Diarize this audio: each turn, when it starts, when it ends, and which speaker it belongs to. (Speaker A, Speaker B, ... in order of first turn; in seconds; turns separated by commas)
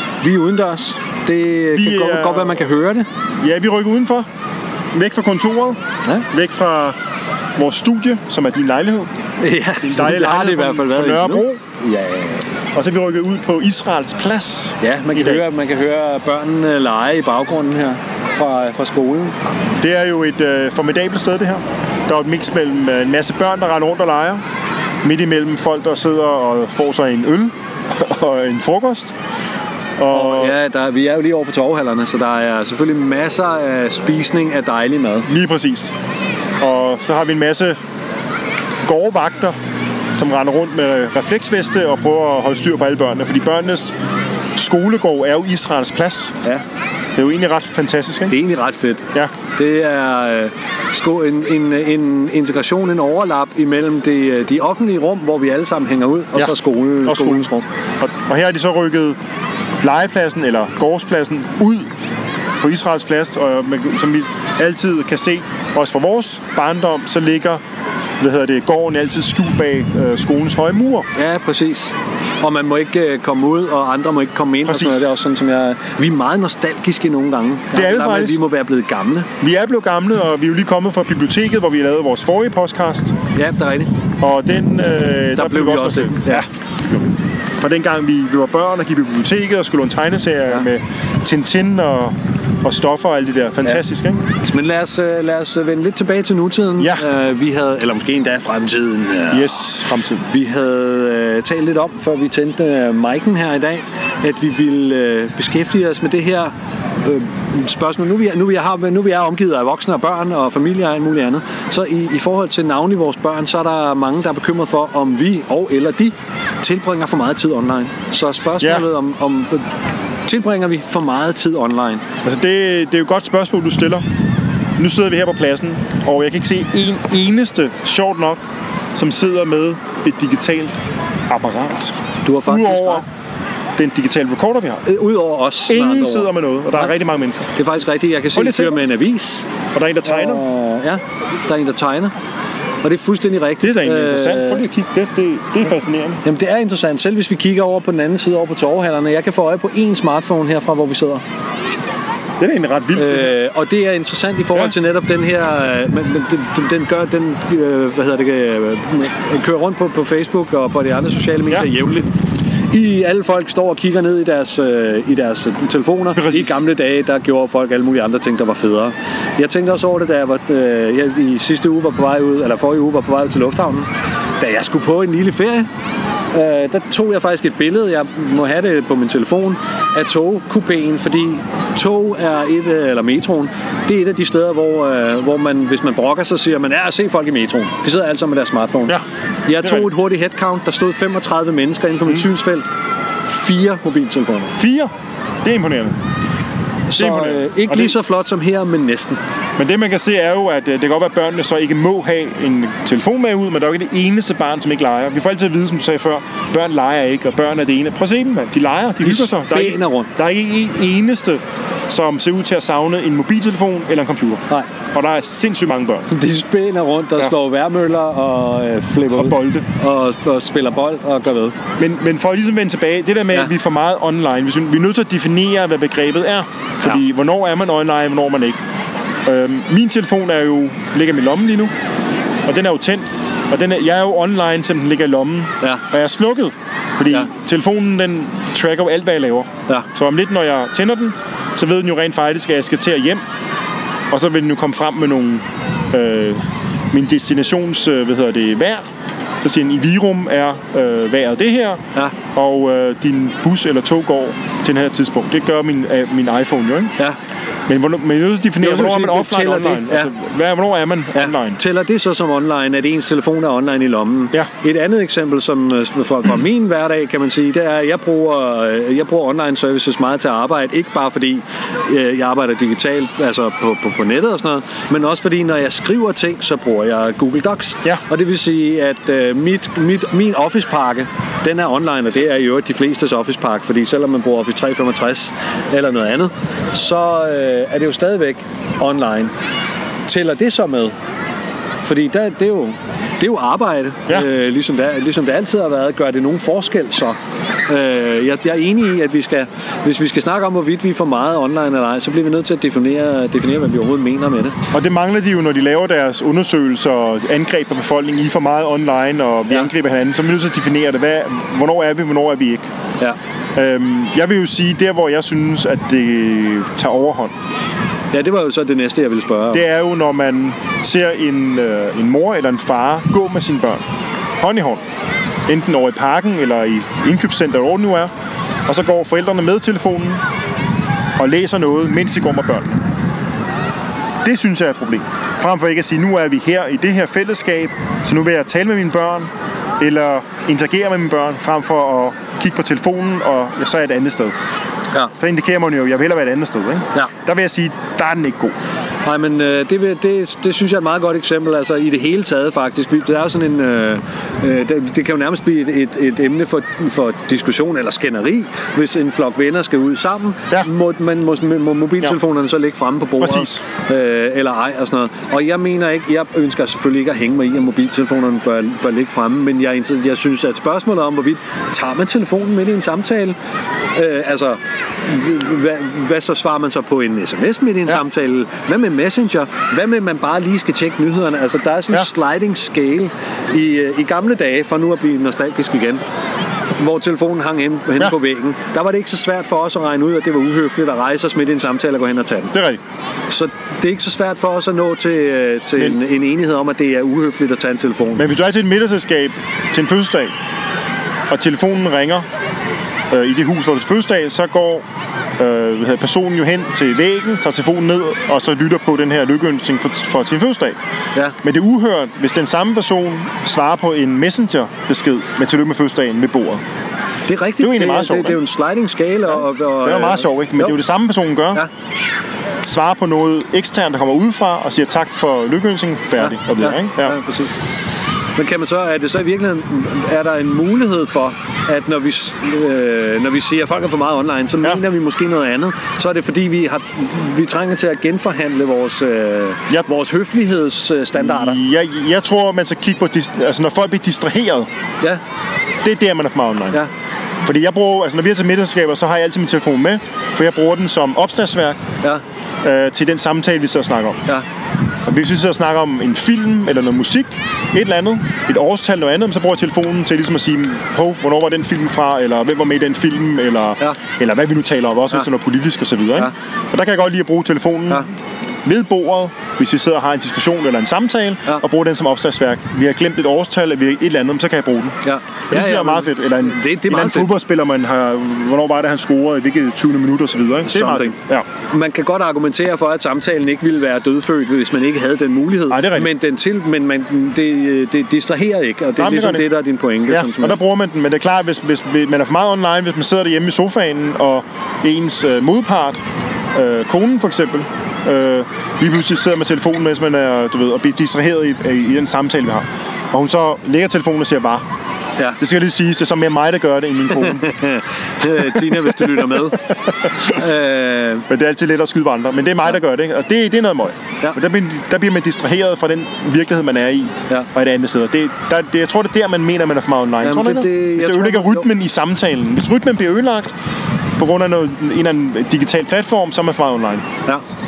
Speaker A: 0.2-3.1, Speaker B: 1.7-2.6, Speaker B: 3.4-4.3, Speaker B: 4.9-7.0, Speaker B: 7.6-9.1, Speaker A: 9.4-12.5, Speaker B: 9.8-11.6, Speaker B: 12.7-15.4, Speaker A: 14.8-19.4, Speaker B: 19.8-24.4, Speaker B: 25.0-29.1, Speaker B: 30.0-30.6, Speaker A: 30.1-35.3, Speaker B: 35.3-35.9, Speaker B: 36.6-37.8, Speaker B: 38.9-39.6, Speaker B: 40.2-43.9, Speaker B: 44.6-46.3, Speaker B: 47.2-48.4, Speaker A: 48.3-57.7, Speaker B: 57.1-57.5, Speaker B: 58.0-59.2, Speaker B: 59.8-61.9, Speaker B: 62.6-67.6, Speaker B: 68.2-71.1, Speaker A: 71.2-79.3, Speaker B: 74.7-75.0, Speaker B: 77.7-78.4, Speaker B: 79.4-83.2, Speaker A: 83.4-83.9, Speaker B: 84.2-87.1, Speaker A: 85.3-86.5, Speaker B: 87.6-94.2, Speaker A: 94.4-99.8, Speaker B: 96.8-97.1, Speaker B: 99.3-100.2, Speaker A: 100.3-119.7, Speaker B: 118.6-118.9, Speaker A: 120.3-122.0, Speaker B: 122.2-124.0, Speaker B: 124.8-128.4, Speaker B: 128.9-130.8, Speaker B: 131.3-133.1, Speaker A: 132.2-133.1, Speaker B: 133.8-134.8, Speaker A: 134.8-136.9, Speaker B: 135.7-137.5, Speaker A: 137.6-139.5, Speaker B: 138.3-138.8, Speaker B: 139.7-140.4, Speaker A: 140.1-142.1, Speaker A: 142.8-144.7, Speaker B: 143.6-146.2, Speaker A: 146.2-151.2, Speaker B: 152.4-153.3, Speaker A: 152.9-162.1, Speaker A: 162.7-175.7, Speaker B: 166.2-166.6, Speaker A: 176.3-188.9, Speaker A: 189.5-192.7, Speaker B: 189.6-189.9, Speaker A: 193.3-194.5, Speaker B: 194.6-194.9, Speaker B: 195.4-195.9, Speaker A: 196.9-199.2, Speaker B: 197.0-198.0, Speaker B: 199.6-216.1, Speaker A: 209.0-210.1, Speaker A: 216.1-221.6, Speaker B: 219.1-219.7, Speaker B: 221.8-228.6, Speaker B: 229.3-231.7, Speaker B: 232.5-243.2, Speaker B: 244.1-248.8, Speaker B: 249.4-256.9, Speaker B: 257.7-261.6, Speaker A: 258.6-260.1, Speaker A: 261.1-289.3, Speaker A: 290.1-290.9, Speaker A: 291.8-304.6, Speaker B: 304.7-312.7, Speaker B: 313.6-317.3, Speaker A: 318.1-319.6, Speaker B: 319.5-323.8, Speaker B: 324.4-324.8, Speaker B: 325.5-328.1, Speaker B: 328.7-330.2, Speaker B: 331.2-332.8, Speaker B: 334.2-339.3, Speaker B: 339.8-344.4, Speaker B: 345.2-348.5, Speaker A: 349.0-373.4, Speaker B: 363.2-363.6, Speaker A: 373.9-386.0, Speaker A: 386.8-392.5, Speaker B: 392.5-392.8, Speaker A: 393.3-398.3, Speaker B: 398.2-400.3, Speaker B: 401.3-402.3, Speaker B: 403.1-404.9, Speaker B: 405.4-410.8, Speaker B: 411.4-416.6, Speaker A: 417.3-420.8, Speaker B: 417.6-418.4, Speaker B: 419.4-421.6, Speaker B: 422.6-427.2, Speaker A: 426.2-427.6, Speaker A: 428.4-441.6, Speaker B: 441.2-444.7, Speaker B: 445.8-446.8, Speaker B: 447.4-451.8, Speaker B: 452.6-454.2, Speaker B: 455.1-468.1, Speaker B: 468.6-475.0, Speaker A: 475.1-477.3, Speaker B: 475.5-481.5, Speaker A: 480.7-481.1, Speaker A: 481.7-490.6, Speaker B: 485.7-486.1, Speaker B: 489.0-489.5, Speaker B: 490.1-496.0, Speaker B: 496.5-504.6, Speaker B: 505.4-507.6, Speaker A: 507.3-511.3, Speaker B: 511.3-523.5, Speaker A: 520.2-521.7, Speaker B: 524.2-527.0